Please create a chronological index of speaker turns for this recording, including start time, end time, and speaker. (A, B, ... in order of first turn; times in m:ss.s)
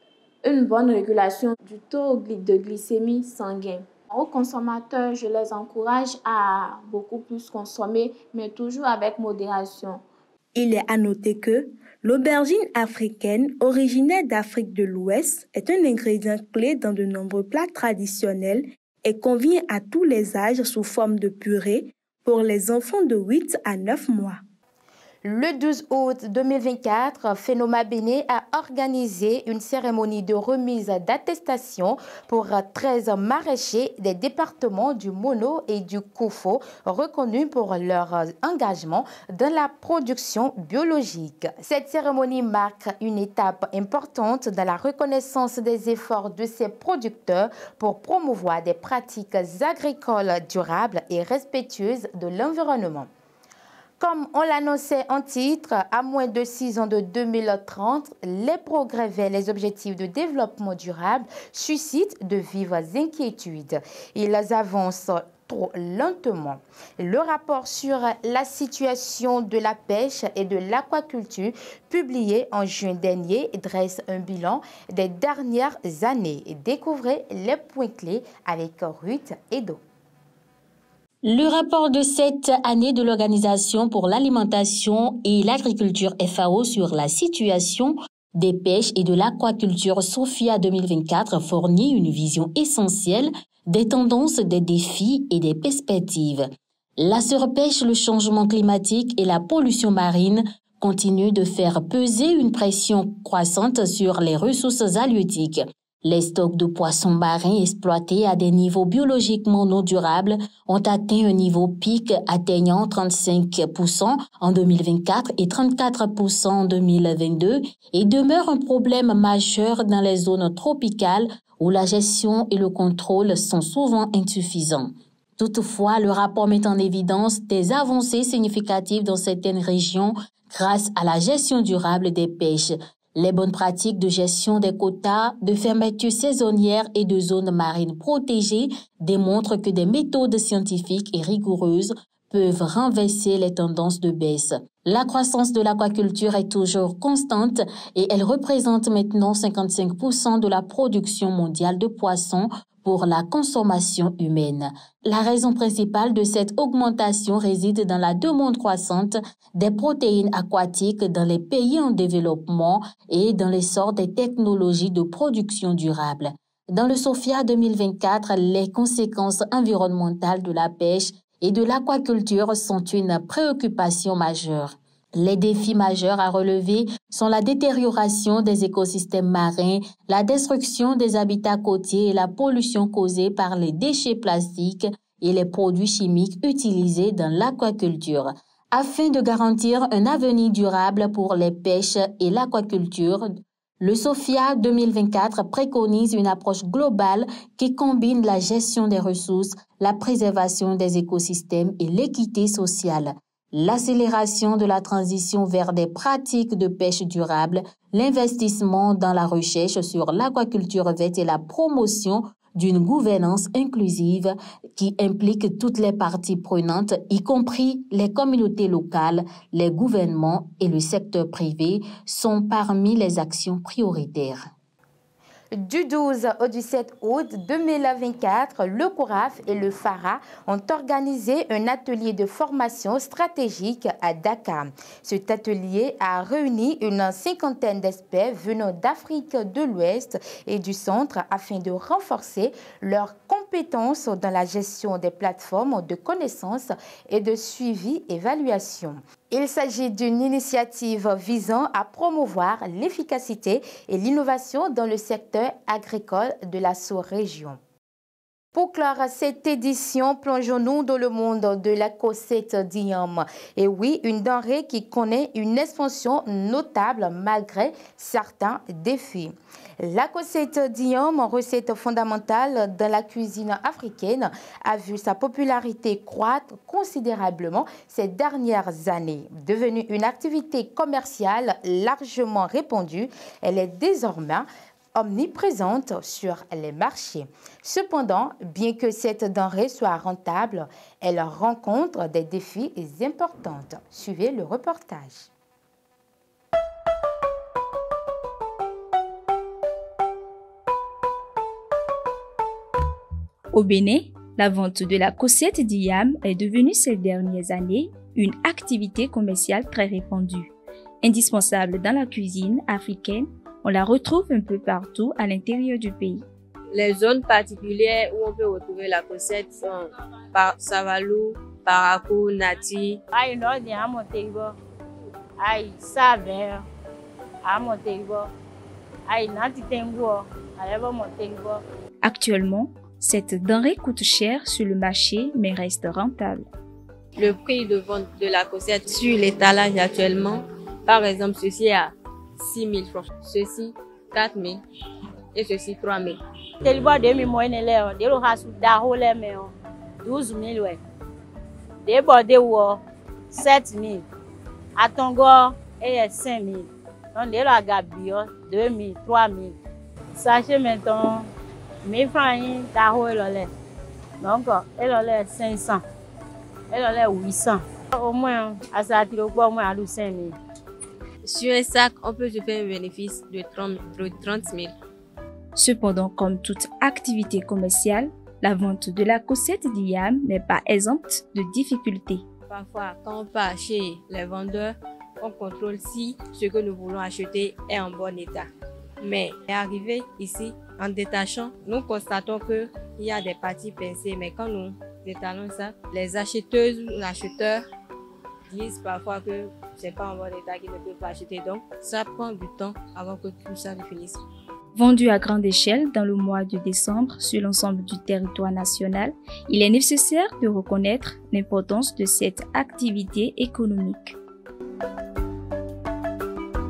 0:00.4-0:10.0 A
0:10.5-0:24.4 B
0:25.2-0:53.1 C
0:54.0-1:19.8 C
1:21.2-1:36.4 D
1:37.0-3:44.4 D
3:45.5-4:17.6 C
4:18.5-4:55.3 C
5:03.5-5:10.5 E
5:11.0-5:16.2 E
5:16.7-5:23.0 F
5:23.1-5:24.6 G
5:25.4-5:26.6 G
5:27.4-5:28.3 G
5:29.1-5:31.6 G
5:32.0-5:36.5 E
5:37.2-5:44.6 F
5:45.3-5:46.2 F
5:46.6-5:50.8 G
5:51.8-5:54.0 G
5:54.8-5:59.6 G
6:00.1-6:01.3 G
6:01.8-6:03.5 G
6:04.2-6:05.8 G
6:06.7-6:10.4 G
6:11.2-6:14.7 F
6:15.6-6:22.2 E
6:22.5-6:28.5 F
6:29.0-6:37.6 F
6:38.5-6:44.2 F
6:44.7-6:54.2 E